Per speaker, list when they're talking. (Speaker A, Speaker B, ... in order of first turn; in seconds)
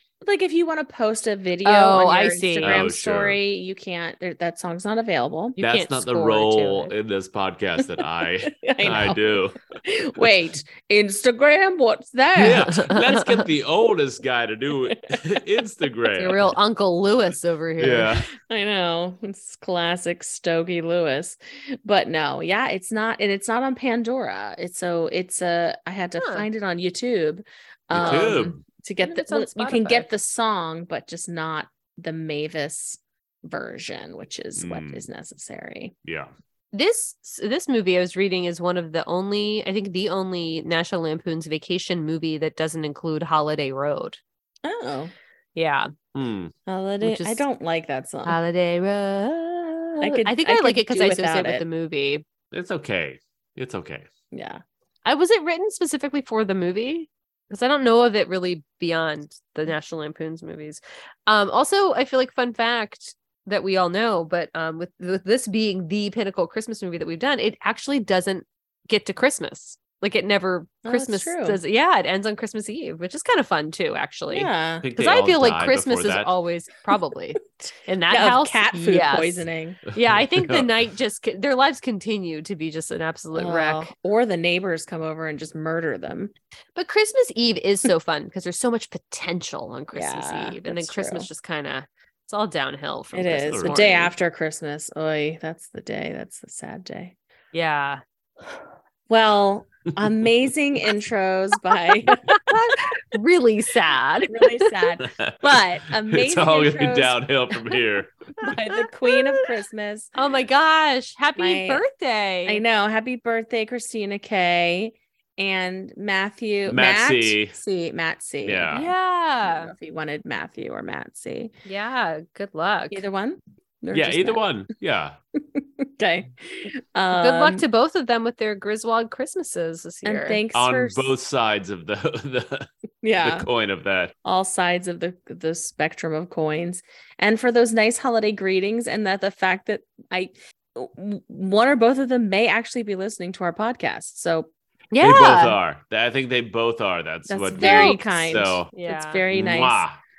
Speaker A: 0.2-5.6, 8.5-12.9, 18.5-35.9, 44.6-45.1, 46.7-48.4, 50.0-51.6, 54.3-54.6, 70.8-71.6, 74.3-74.8, 77.6-79.8, 83.3-86.3, 89.9-91.3, 93.1-97.1, 99.1-102.2, 104.3-107.2, 108.4-110.1, 111.3-111.8, 112.5-118.8, 119.4-121.5, 122.9-124.4, 125.6-126.3, 126.9-127.6, 130.0-131.1, 133.0-133.5, 134.2-144.5, 147.3-149.8
Speaker B: 1.6-2.9, 5.6-6.9, 16.1-18.2, 26.2-26.5, 29.0-30.1, 36.7-44.2, 45.5-45.9, 47.0-47.4, 48.2-52.2, 55.0-83.9, 86.8-94.1, 97.5-98.0, 102.3-104.8, 108.8-109.2, 110.2-112.6, 118.7-119.7, 121.6-123.0, 127.1-130.4, 144.9-145.6, 147.6-149.2
Speaker C: 2.6-3.4, 5.6-9.6, 12.3-16.5, 17.8-18.3, 27.9-28.6, 34.6-35.1, 36.0-36.3, 46.1-46.5, 52.5-54.1, 74.8-76.3, 80.3-80.7, 93.5-93.9, 105.1-108.1, 116.7-117.6, 118.4-118.9, 123.9-125.2, 130.5-132.7, 133.2-134.1, 145.0-148.7, 149.3-150.0